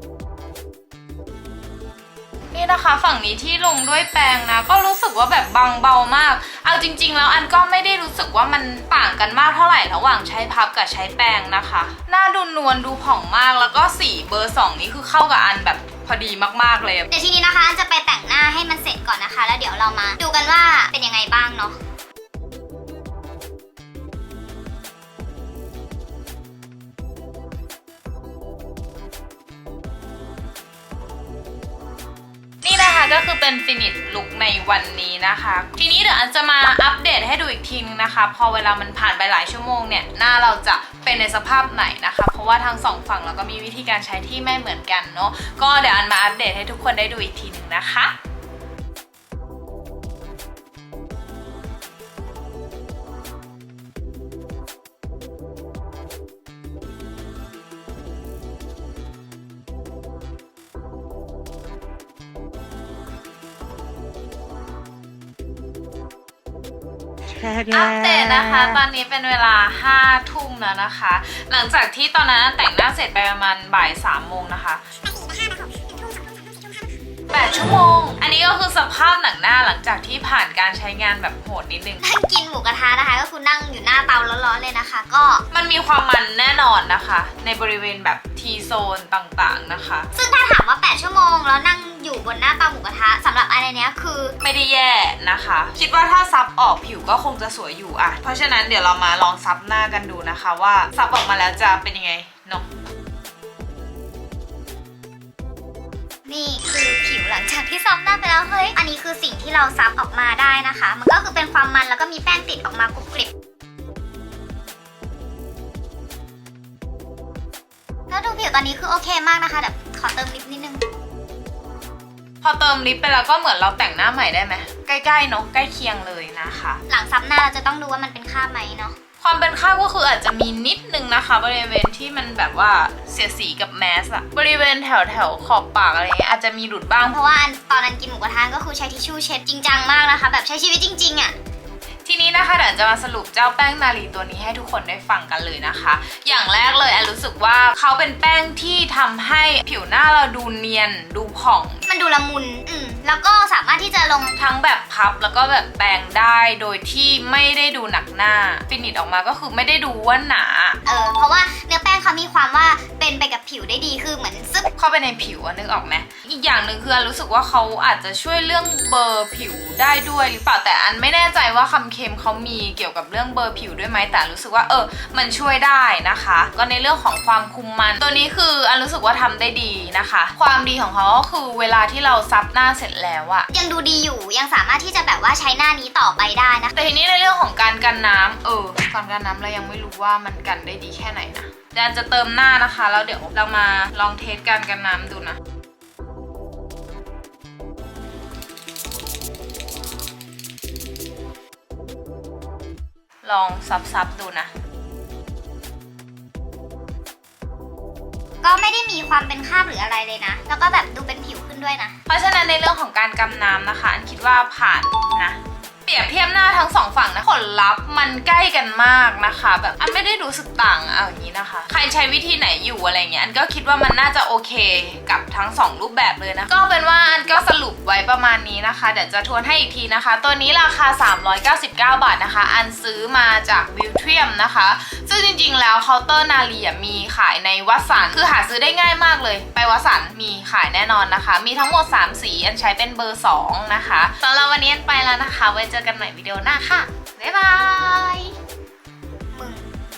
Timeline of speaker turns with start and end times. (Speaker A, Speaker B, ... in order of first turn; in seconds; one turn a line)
Speaker A: 2.5-17.1
Speaker B: 17.1-21.8
Speaker A: 32.6-48.1
Speaker A: 67.7-74.8
Speaker B: 75.1-76.9
Speaker A: 77.3-82.0
Speaker B: 82.0-85.4
Speaker A: 85.5-90.1
Speaker B: 90.1-94.4
Speaker A: 94.4-102.7
Speaker B: 106.3-113.3
Speaker B: 118.1-120.8
Speaker A: 122.4-126.8
Speaker B: 126.9-129.0
Speaker A: 129.2-137.2
Speaker B: 137.1-141.3
Speaker A: 142.0-151.8
Speaker B: 151.9-154.4
Speaker A: 154.4-160.8
Speaker B: 160.8-164.7
Speaker A: 164.8-183.5
Speaker B: 183.5-186.9
Speaker A: 186.8-195.4
Speaker A: 203.2-204.5
Speaker B: 208.4-212.0
Speaker A: 212.1-248.3
Speaker B: 249.3-249.7